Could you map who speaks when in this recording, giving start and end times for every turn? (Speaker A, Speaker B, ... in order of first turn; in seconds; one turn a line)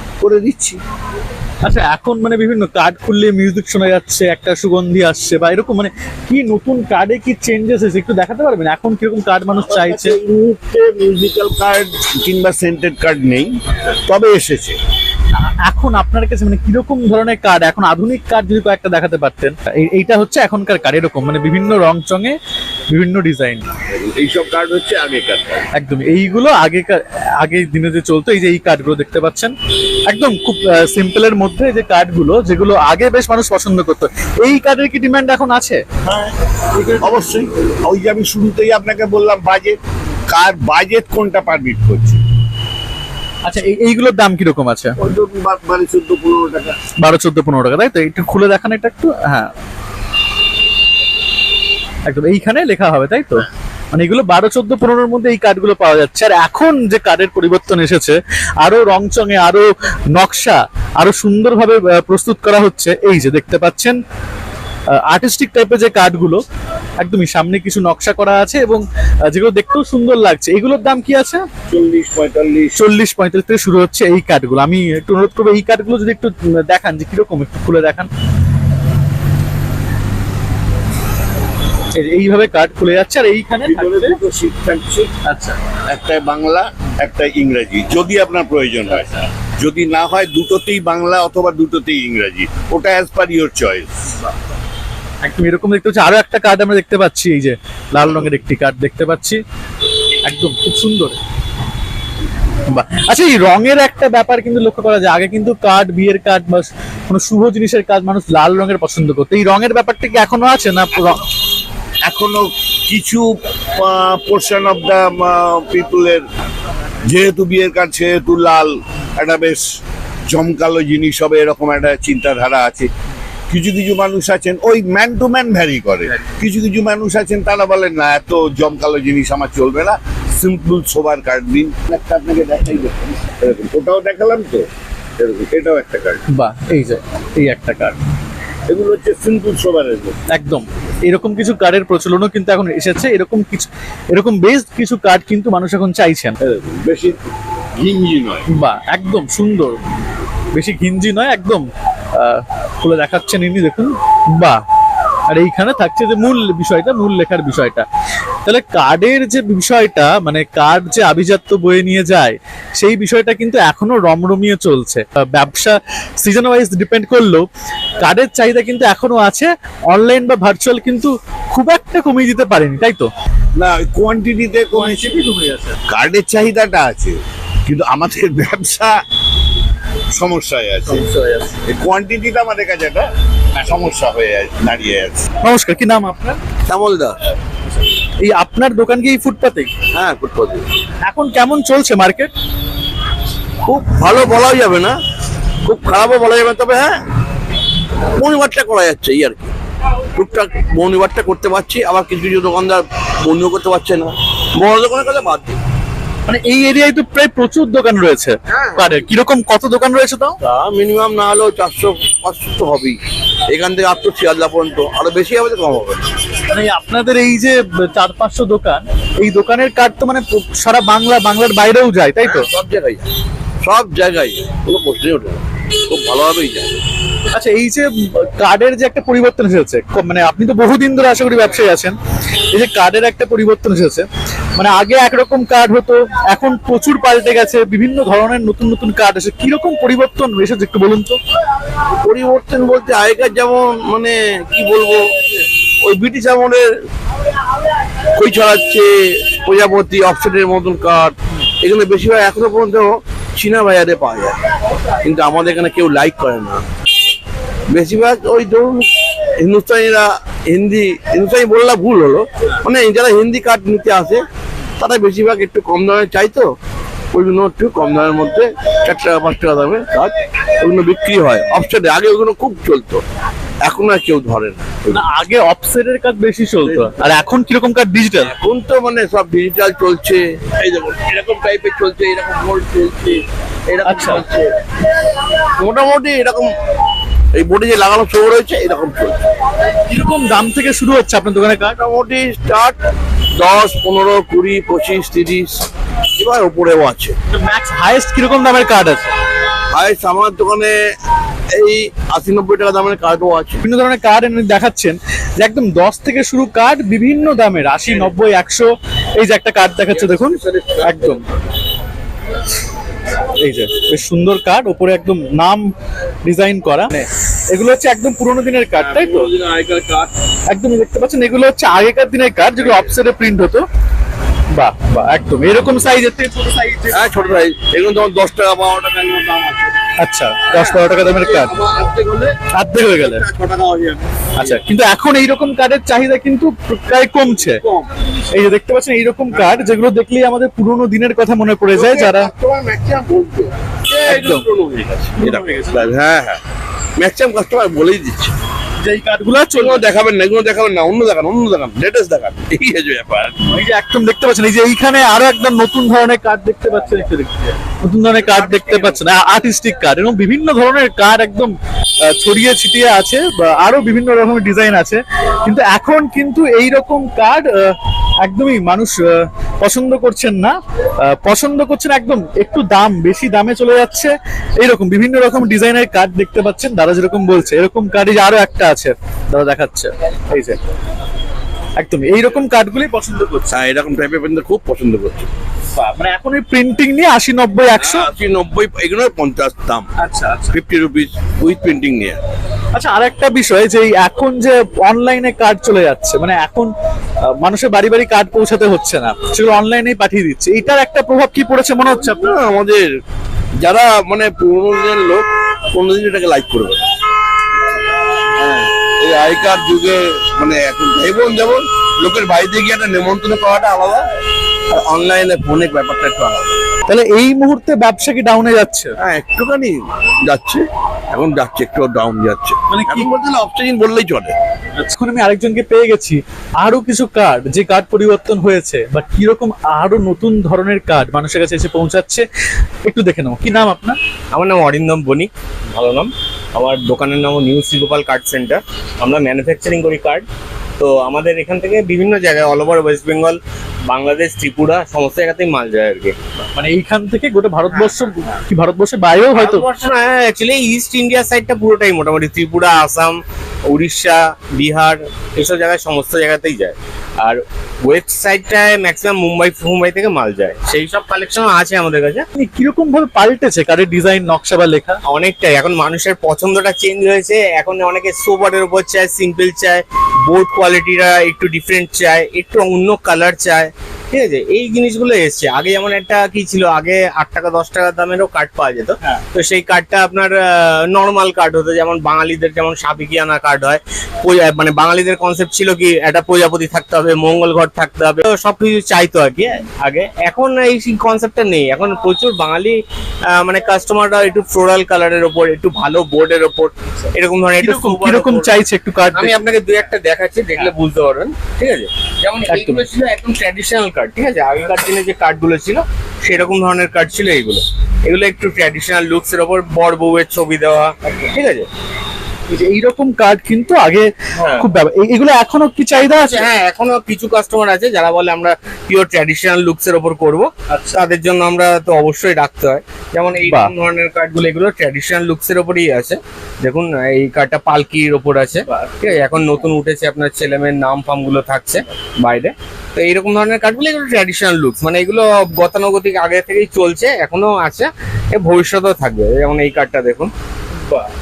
Speaker A: 0.2-0.8
Speaker B: 1.6-10.2
Speaker A: 9.7-14.8
Speaker B: 15.3-22.4
Speaker B: 22.9-23.7
Speaker A: 23.8-25.6
Speaker B: 25.7-29.5
Speaker B: 30.1-35.8
Speaker A: 36.0-36.4
Speaker A: 36.9-39.8
Speaker A: 40.3-42.2
Speaker B: 43.4-45.0
Speaker A: 45.0-46.8
Speaker B: 47.0-49.5
Speaker B: 52.1-64.0
Speaker B: 65.0-66.4
Speaker B: 67.0-71.5
Speaker A: 71.7-72.8
Speaker B: 72.8-78.1
Speaker B: 81.9-84.2
Speaker A: 83.7-85.1
Speaker B: 85.2-85.6
Speaker A: 85.9-94.1
Speaker B: 95.2-99.4
Speaker B: 100.2-101.2
Speaker B: 102.7-111.2
Speaker A: 112.0-116.2
Speaker A: 117.0-119.7
Speaker A: 120.3-122.9
Speaker A: 123.5-134.7
Speaker A: 135.2-136.2
Speaker B: 136.3-138.0
Speaker A: 138.7-140.2
Speaker B: 140.3-146.4
Speaker A: 146.4-147.2
Speaker A: 147.8-148.4
Speaker B: 148.5-149.8
Speaker B: 150.5-154.6
Speaker B: 155.3-157.9
Speaker B: 158.4-167.5
Speaker B: 168.0-173.1
Speaker A: 173.6-175.2
Speaker B: 174.7-175.8
Speaker A: 175.9-178.9
Speaker A: 180.1-181.1
Speaker B: 180.9-181.6
Speaker A: 181.6-185.2
Speaker B: 185.4-186.4
Speaker C: 186.7-187.2
Speaker B: 188.2-189.7
Speaker C: 189.9-190.7
Speaker B: 191.0-192.3
Speaker C: 193.7-195.0
Speaker C: 195.7-196.9
Speaker C: 198.2-199.5
Speaker C: 200.1-205.6
Speaker B: 206.3-210.4
Speaker C: 208.5-208.8
Speaker C: 210.4-216.1
Speaker B: 216.5-222.5
Speaker C: 222.2-223.1
Speaker C: 223.6-226.8
Speaker B: 227.3-232.0
Speaker B: 232.5-241.2
Speaker C: 242.0-245.1
Speaker C: 245.8-246.7
Speaker C: 248.2-254.4
Speaker C: 255.0-256.6
Speaker C: 257.7-264.2
Speaker C: 264.8-266.5
Speaker C: 267.1-273.0
Speaker C: 273.6-274.9
Speaker B: 274.9-278.3
Speaker C: 276.7-276.9
Speaker C: 278.2-284.5
Speaker B: 283.8-284.2
Speaker C: 285.6-286.5
Speaker C: 287.3-289.2
Speaker B: 289.9-291.8
Speaker C: 291.8-292.8
Speaker C: 293.4-297.1
Speaker B: 297.3-299.1
Speaker C: 299.7-300.9
Speaker C: 301.5-303.6
Speaker B: 303.6-311.2
Speaker C: 309.9-311.4
Speaker B: 313.2-315.7
Speaker B: 316.2-319.3
Speaker C: 318.8-320.1
Speaker B: 320.5-323.6
Speaker B: 324.5-327.0
Speaker C: 326.9-329.8
Speaker B: 330.0-331.6
Speaker C: 330.5-334.6
Speaker B: 332.5-333.2
Speaker B: 334.4-337.6
Speaker B: 338.3-342.3
Speaker C: 341.7-346.4
Speaker B: 344.1-344.5
Speaker B: 345.2-345.9
Speaker C: 347.0-348.3
Speaker B: 348.8-349.9
Speaker C: 349.6-353.4
Speaker B: 353.4-380.6
Speaker D: 358.2-359.0
Speaker B: 381.8-383.6
Speaker C: 383.5-385.3
Speaker B: 385.8-388.1
Speaker C: 387.8-389.9
Speaker B: 390.0-390.6
Speaker C: 390.5-392.2
Speaker B: 392.7-396.7
Speaker B: 397.3-402.4
Speaker C: 401.9-402.9
Speaker C: 403.6-406.8
Speaker C: 408.4-414.1
Speaker C: 414.7-416.6
Speaker B: 416.9-418.9
Speaker C: 419.0-424.4
Speaker B: 422.7-423.1
Speaker B: 424.8-432.3
Speaker B: 432.9-434.0
Speaker D: 434.3-440.3
Speaker D: 440.8-446.2
Speaker B: 446.5-449.6
Speaker D: 449.3-462.2
Speaker B: 462.4-465.0
Speaker D: 465.1-498.6
Speaker B: 497.6-499.4
Speaker D: 499.1-511.7
Speaker B: 502.5-502.9
Speaker B: 512.5-516.5
Speaker D: 514.4-514.7
Speaker D: 516.0-540.3
Speaker B: 523.4-523.7
Speaker B: 528.7-529.1